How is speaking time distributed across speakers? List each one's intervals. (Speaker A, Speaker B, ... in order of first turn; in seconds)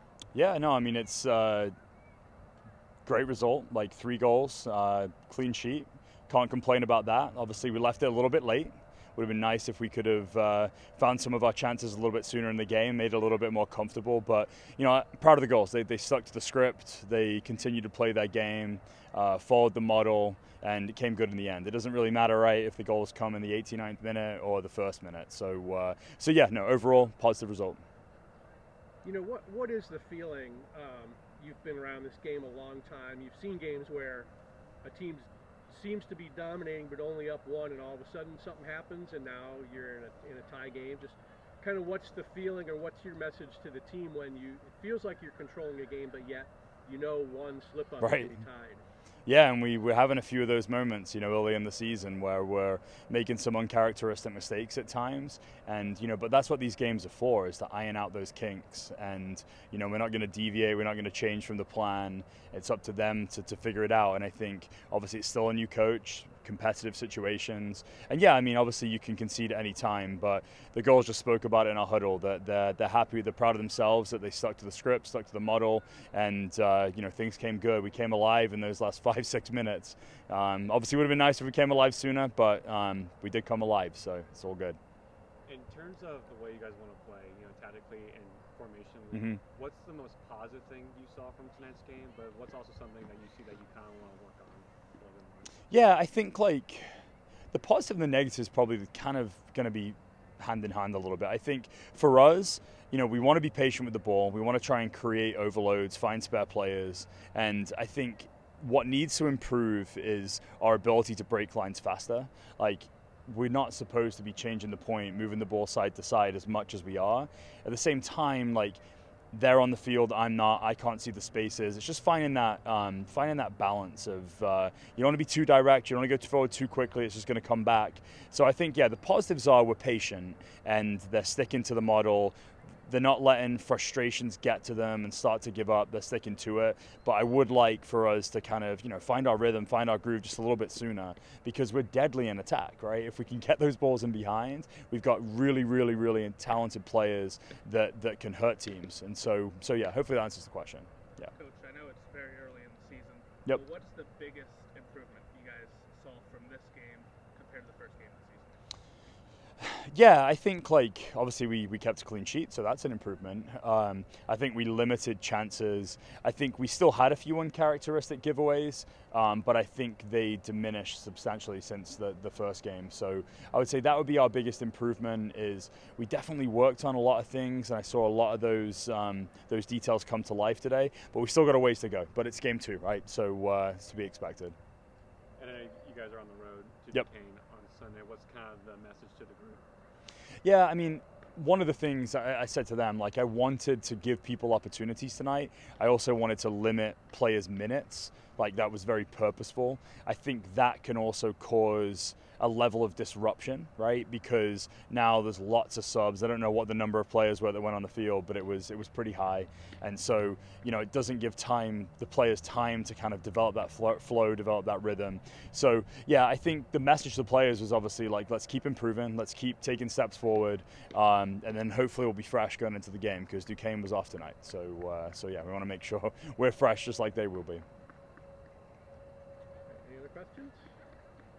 Speaker A: 0.3-1.7, 3.1-27.8, 48.0-48.4, 49.3-84.8, 89.1-89.4, 95.7-96.9, 97.5-118.8, 119.3-132.3, 132.9-151.3, 159.6-184.6, 190.4-227.6
Speaker B: 29.0-34.3, 34.8-48.9, 229.7-230.6
Speaker C: 85.5-95.5, 185.4-189.6
Speaker D: 151.3-158.5